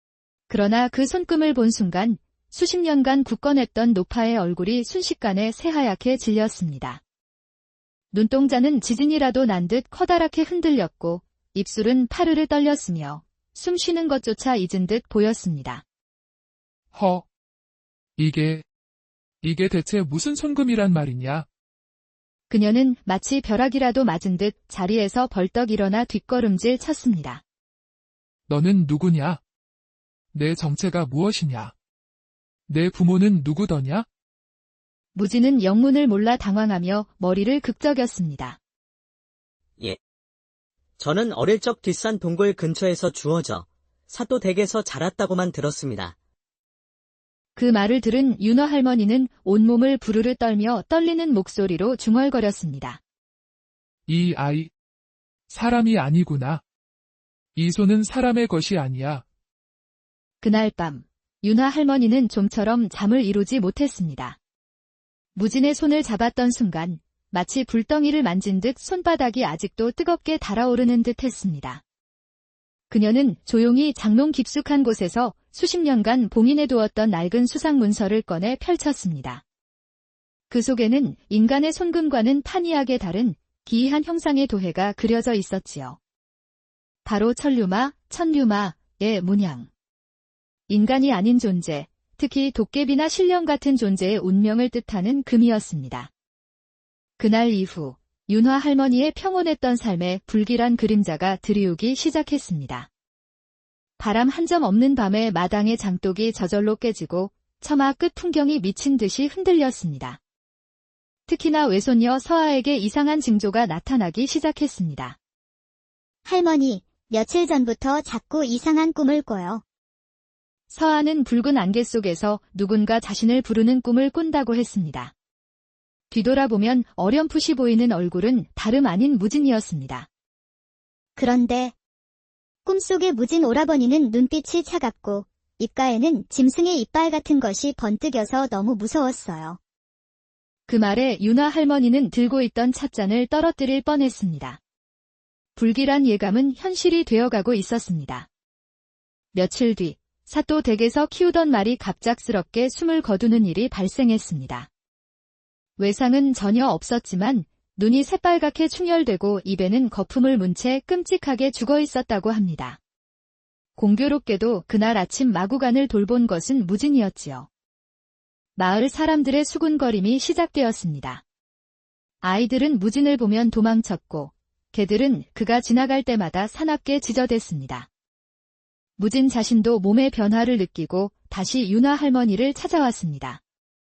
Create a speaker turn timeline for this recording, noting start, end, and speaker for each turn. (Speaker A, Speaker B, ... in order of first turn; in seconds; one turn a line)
Speaker A: 0.5-7.0
Speaker A: 8.1-15.8
Speaker B: 16.9-17.2
Speaker B: 18.2-18.6
Speaker B: 19.4-21.5
Speaker A: 22.5-27.4
Speaker B: 28.5-29.4
Speaker B: 30.3-31.7
Speaker B: 32.7-34.1
Speaker A: 35.1-38.6
Speaker C: 41.0-46.1
Speaker A: 47.6-53.0
Speaker B: 54.1-54.7
Speaker B: 55.5-56.6
Speaker B: 57.5-59.2
Speaker A: 60.4-64.4
Speaker A: 65.3-71.8
Speaker A: 72.9-79.4
Speaker A: 80.5-86.0
Speaker A: 87.0-89.7
Speaker A: 90.7-96.1
Speaker A: 97.2-102.9
Speaker A: 104.0-110.2
Speaker A: 111.3-115.2
Speaker D: 116.3-119.6
Speaker A: 120.7-125.1
Speaker A: 126.1-130.1
Speaker D: 131.2-131.7
Speaker D: 132.7-139.6
Speaker A: 140.7-144.6
Speaker A: 145.6-148.3
Speaker A: 149.3-154.7
Speaker A: 155.8-162.8
Speaker A: 163.8-167.5
Speaker A: 168.6-171.2
Speaker A: 172.2-177.9
Speaker A: 179.0-183.4